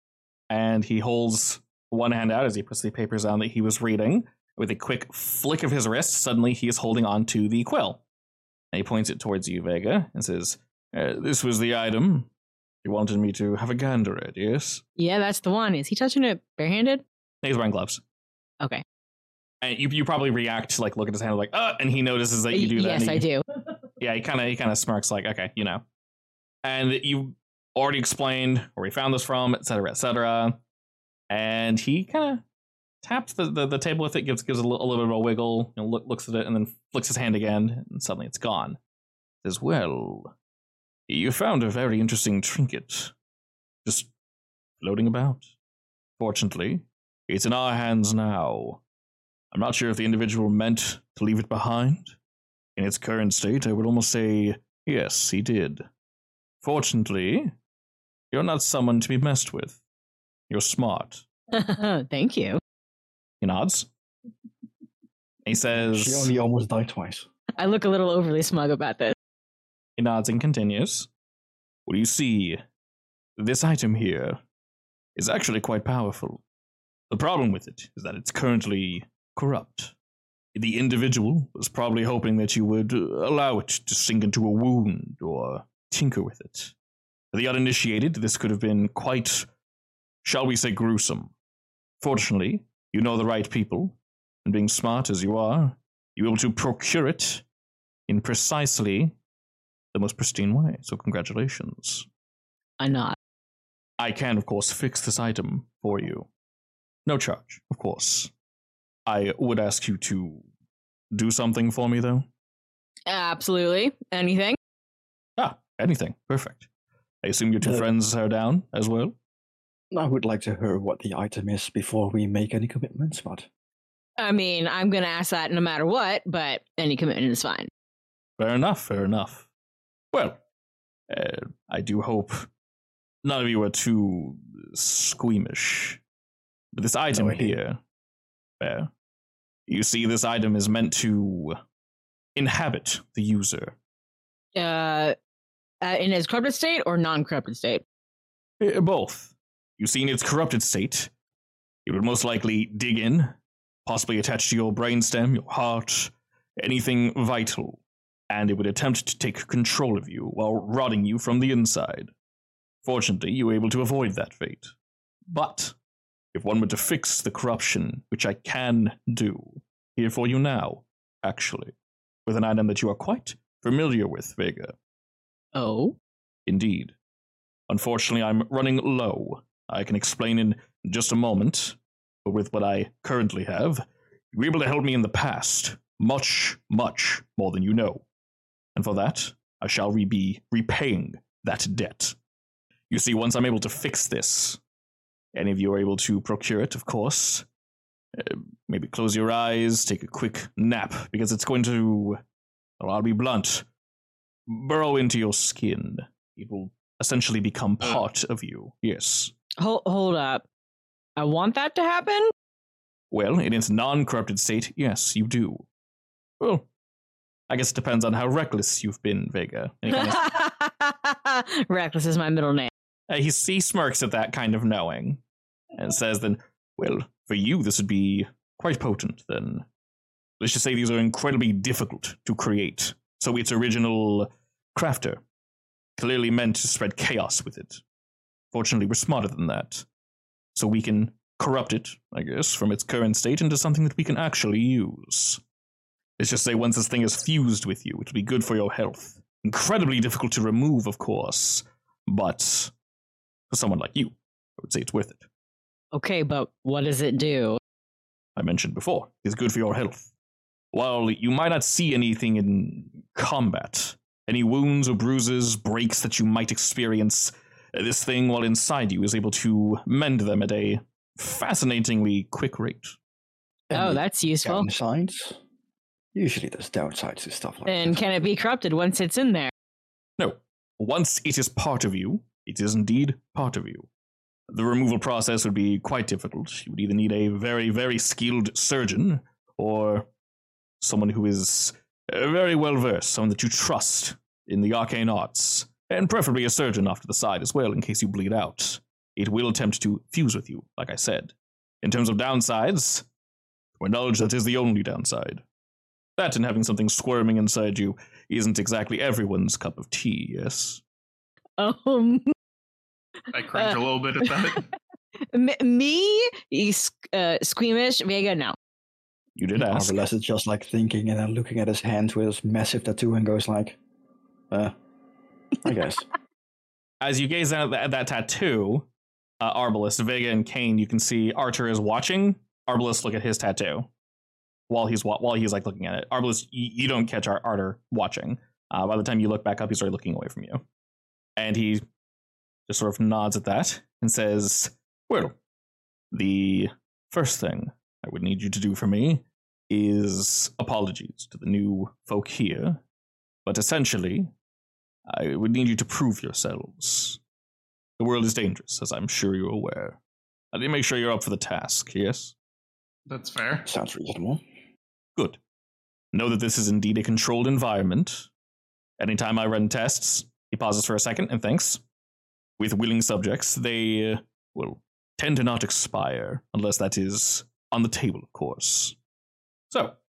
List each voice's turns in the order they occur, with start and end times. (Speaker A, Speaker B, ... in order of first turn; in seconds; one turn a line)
Speaker A: 0.5-8.0
Speaker A: 8.7-12.3
Speaker A: 12.8-14.8
Speaker B: 15.0-17.0
Speaker A: 17.4-18.0
Speaker A: 19.6-23.3
Speaker B: 22.5-23.4
Speaker A: 24.0-25.8
Speaker A: 26.6-30.6
Speaker A: 31.3-32.4
Speaker A: 33.0-38.8
Speaker A: 39.4-40.3
Speaker A: 41.1-43.1
Speaker A: 43.9-44.1
Speaker A: 44.8-45.5
Speaker A: 46.2-48.8
Speaker A: 49.5-52.1
Speaker A: 52.8-55.9
Speaker A: 56.6-57.5
Speaker A: 58.3-59.8
Speaker A: 60.5-61.2
Speaker B: 61.5-62.6
Speaker A: 63.4-63.9
Speaker A: 65.5-66.3
Speaker C: 65.7-67.3
Speaker B: 67.6-69.2
Speaker A: 70.0-71.1
Speaker A: 71.9-72.6
Speaker A: 73.4-74.4
Speaker A: 75.2-76.4
Speaker A: 77.1-79.9
Speaker A: 80.5-86.7
Speaker A: 87.3-89.5
Speaker A: 90.2-91.3
Speaker A: 92.0-97.4
Speaker A: 98.1-99.2
Speaker A: 99.9-102.1
Speaker B: 102.8-103.2
Speaker A: 104.0-106.3
Speaker A: 107.1-108.3
Speaker A: 109.1-110.5
Speaker A: 111.1-112.3
Speaker B: 113.1-114.6
Speaker A: 115.4-116.7
Speaker A: 117.2-119.2
Speaker C: 119.9-123.5
Speaker B: 124.2-127.7
Speaker A: 128.4-129.5
Speaker A: 130.1-130.4
Speaker A: 131.1-132.5
Speaker A: 133.2-136.0
Speaker A: 136.7-137.8
Speaker C: 137.1-137.6
Speaker A: 138.6-138.9
Speaker A: 139.7-141.6
Speaker A: 142.3-143.8
Speaker B: 144.6-145.2
Speaker B: 145.8-147.8
Speaker A: 148.6-151.1
Speaker A: 151.9-153.3
Speaker A: 153.9-162.1
Speaker A: 162.8-164.7
Speaker A: 165.3-165.8
Speaker A: 166.3-171.7
Speaker A: 172.3-174.8
Speaker B: 175.5-176.0
Speaker A: 176.5-176.9
Speaker A: 177.7-188.1
Speaker A: 188.8-192.2
Speaker A: 192.9-194.6
Speaker A: 195.3-197.5
Speaker A: 198.2-202.2
Speaker A: 202.8-203.7
Speaker A: 204.5-209.3
Speaker B: 209.6-210.5
Speaker B: 211.2-212.3
Speaker A: 213.1-215.7
Speaker A: 216.4-216.7
Speaker A: 217.5-220.3
Speaker B: 219.9-222.7
Speaker A: 223.1-225.2
Speaker A: 225.8-229.7
Speaker A: 230.4-235.2
Speaker A: 236.0-237.8
Speaker A: 238.5-239.8
Speaker A: 240.6-245.4
Speaker A: 246.2-252.7
Speaker A: 253.5-255.3
Speaker B: 255.9-257.6
Speaker A: 258.4-260.1
Speaker A: 260.7-273.0
Speaker C: 273.7-275.4
Speaker B: 273.7-274.7
Speaker C: 276.1-278.0
Speaker B: 277.7-279.5
Speaker A: 280.2-283.9
Speaker A: 284.5-290.1
Speaker A: 290.8-303.1
Speaker A: 303.8-305.4
Speaker A: 306.2-310.8
Speaker B: 311.6-312.3
Speaker D: 313.3-314.7
Speaker B: 313.5-314.3
Speaker B: 315.3-318.6
Speaker A: 319.4-320.0
Speaker C: 319.6-323.8
Speaker C: 325.6-326.1
Speaker A: 327.0-328.9
Speaker A: 329.4-333.9
Speaker A: 334.7-340.6
Speaker A: 341.4-341.8
Speaker A: 342.7-345.4
Speaker A: 346.1-352.8
Speaker A: 353.5-354.3
Speaker A: 355.1-357.2
Speaker A: 358.0-360.0
Speaker A: 360.5-362.3
Speaker D: 363.1-363.7
Speaker C: 363.7-364.4
Speaker A: 366.1-368.3
Speaker A: 369.0-371.8
Speaker A: 372.6-379.0
Speaker A: 379.7-380.0